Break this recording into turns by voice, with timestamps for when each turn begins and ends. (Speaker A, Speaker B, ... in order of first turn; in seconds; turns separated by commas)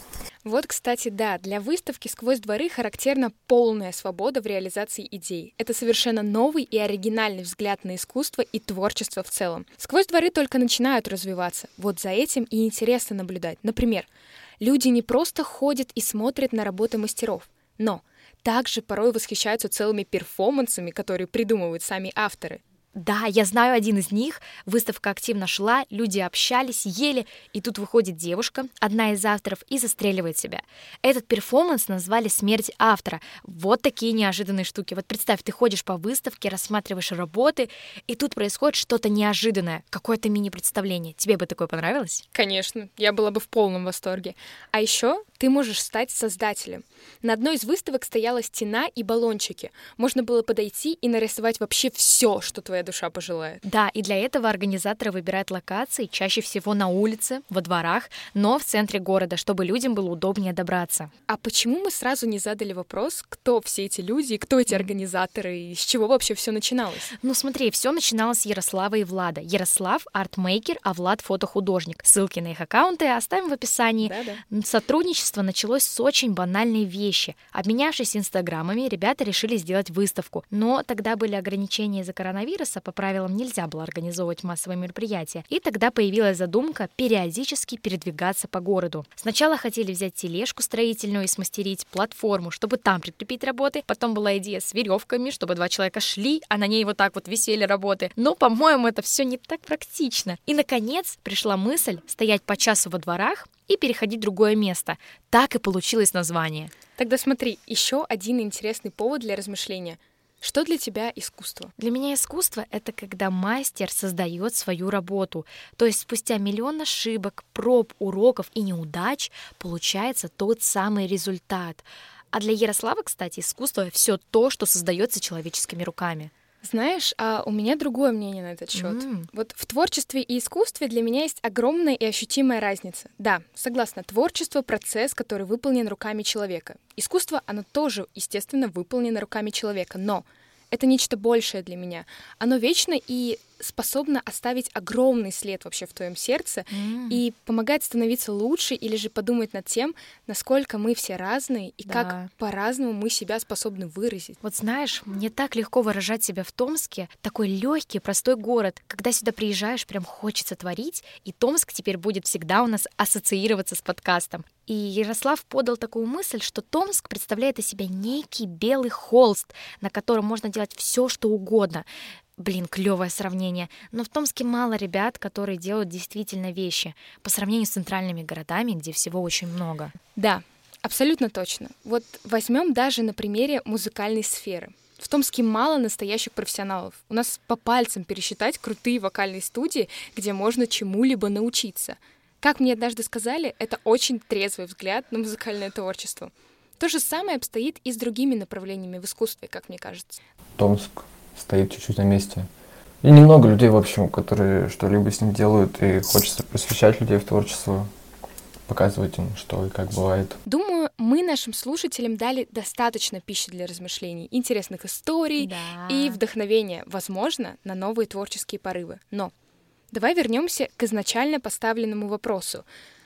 Speaker A: 0.4-14.1, Speaker A: 14.6-22.6, Speaker B: 22.9-42.2, Speaker A: 42.3-53.6, Speaker B: 53.6-61.1, Speaker A: 61.3-67.1, Speaker B: 67.2-106.7, Speaker A: 74.0-74.4, Speaker A: 107.0-111.7, Speaker B: 111.8-126.3, Speaker A: 126.6-154.4, Speaker B: 128.7-129.3, Speaker B: 146.7-147.2, Speaker B: 151.8-152.3, Speaker B: 154.4-171.9, Speaker B: 172.4-179.9, Speaker A: 180.2-200.2, Speaker C: 200.6-202.5, Speaker C: 203.0-207.9, Speaker C: 208.7-210.4, Speaker A: 210.5-219.3, Speaker B: 215.4-216.2, Speaker A: 219.9-222.7